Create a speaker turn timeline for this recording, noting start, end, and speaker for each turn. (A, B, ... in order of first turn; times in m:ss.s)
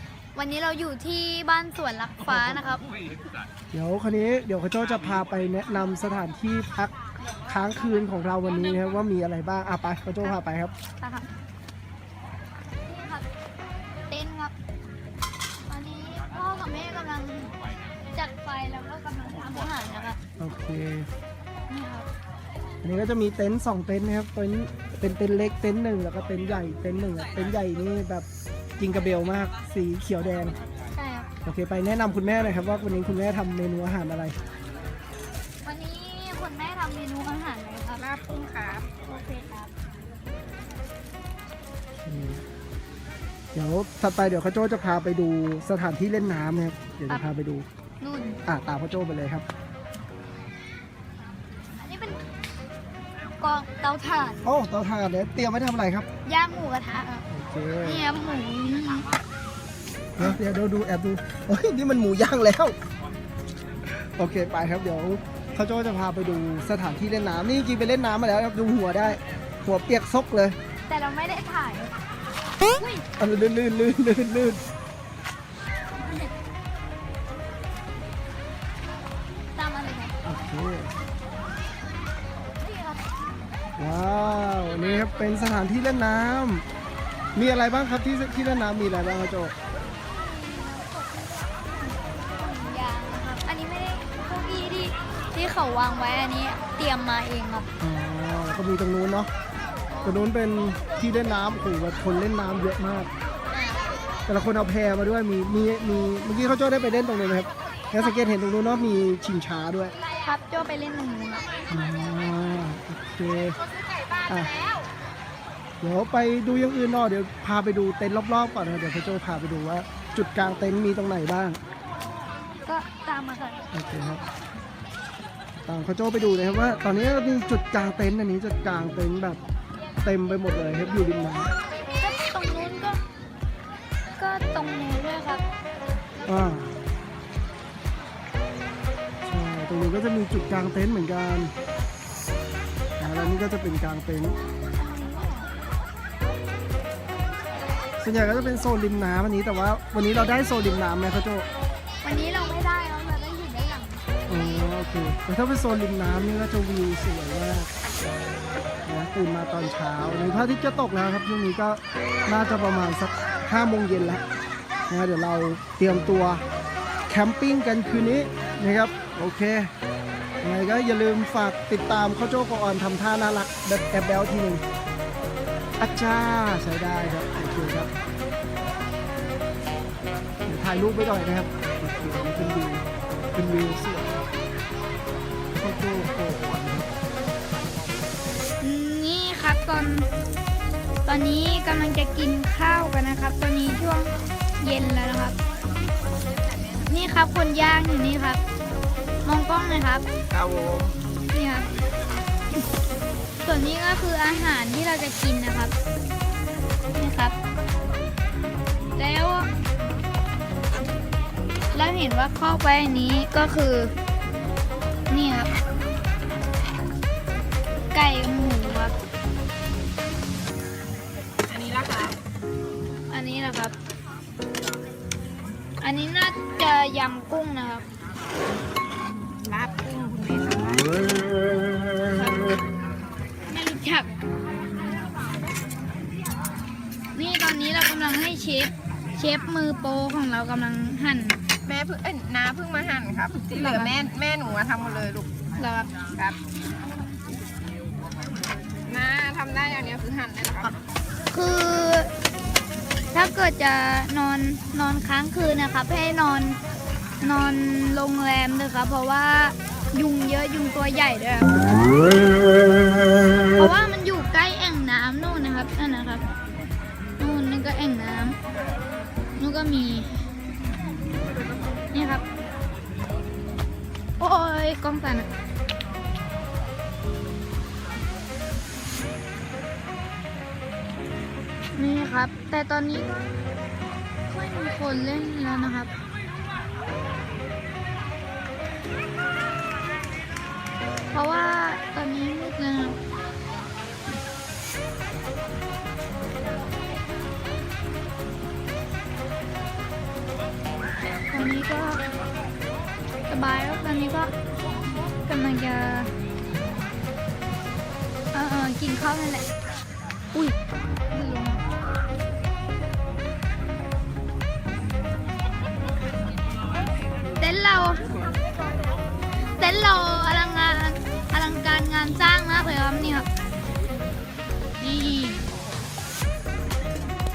0:00.3-0:02.8 A
0:02.3-0:02.6 B
0:03.7-0:10.7 B
0:11.0-0:11.3 A
0:12.8-0:13.2 A
0:14.1-0:14.5 A
0:15.6-0:17.5 A
0:18.1-0:20.2 A
0:20.4-0:21.1 B
0:21.7-0:22.1 A
0:22.8-0:28.2 B
0:28.8-0:30.6 B
0:30.9-0:31.3 A
0:31.4-0:34.4 B
0:35.6-0:38.0 A
0:37.9-0:38.9 C
0:39.0-0:39.7 A
0:42.0-0:42.4 B
0:43.5-0:47.6 B
0:48.0-0:48.4 A
0:48.5-0:49.4 B
0:51.8-0:52.2 A
0:53.4-0:54.4 A
0:54.4-0:56.1 B
0:56.2-0:57.2 A
0:57.3-0:58.0 B
0:57.8-0:59.0 A
1:00.2-1:02.8 B
1:03.8-1:10.6 B
1:10.9-1:11.9 A
1:12.7-1:13.0 A
1:13.2-1:14.6 B
1:15.9-1:16.3 A
1:19.5-1:20.2 A
1:20.2-1:20.9 B
1:22.6-1:23.0 A
1:23.8-1:26.6 B
1:27.3-1:29.5 B
1:30.1-1:37.7 A
1:37.8-1:39.3 B
1:39.9-1:40.2 A
1:40.0-1:43.1 B
1:44.3-1:50.0 B
1:50.2-1:51.4 A
1:51.7-1:53.6 B
1:54.2-1:54.6 B
1:55.8-2:01.6 B
2:02.6-2:03.6 A
2:03.7-2:04.2 B
2:05.6-2:09.4 B
2:10.0-2:11.5 B
2:11.9-2:13.0 A
2:14.2-2:15.4 A
2:16.2-2:16.7 B
2:19.2-2:21.5 B
2:23.0-2:24.4 B
2:24.8-2:25.5 A
2:28.0-2:31.4 B
2:32.0-2:34.0 A
2:34.3-2:37.7 B
2:38.8-2:44.2 B
2:44.9-2:46.4 B
2:47.1-2:49.7 B
2:50.4-2:54.6 B
2:55.8-2:57.9 B
3:00.4-3:04.2 B
3:05.6-3:07.0 B
3:08.6-3:10.1 A
3:11.0-3:15.4 A
3:16.4-3:16.9 C
3:16.8-3:18.4 A
3:19.2-3:20.0 A
3:20.4-3:20.9 B
3:21.3-3:21.7 A
3:23.4-3:25.7 A
3:26.9-3:27.4 A
3:29.0-3:29.5 A
3:31.7-3:33.9 A
3:35.1-3:35.5 A
3:37.9-3:38.9 A
3:41.5-3:42.2 C
3:43.1-3:43.7 A
3:45.8-3:47.8 A
3:49.1-3:51.0 C
3:52.1-3:52.6 C
3:53.5-3:54.1 A
3:57.1-4:01.4 A
4:01.6-4:05.3 C
4:03.5-4:03.9 A
4:05.6-4:05.9 A
4:06.1-4:06.4 C
4:08.8-4:10.8 C
4:11.3-4:12.1 A
4:13.1-4:16.6 A
4:17.2-4:22.0 A
4:23.5-4:26.2 A
4:27.2-4:28.4 A
4:29.4-4:30.1 A
4:31.9-4:32.2 A
4:34.2-4:35.3 A
4:41.7-4:43.1 A
4:44.3-4:45.9 A
4:51.1-4:53.0 A
5:01.3-5:02.0 A
5:03.3-5:04.3 A
5:05.2-5:06.1 A
5:08.3-5:09.5 A
5:11.1-5:11.6 A
5:17.4-5:18.0 A
5:19.6-5:23.3 A
5:24.8-5:25.4 A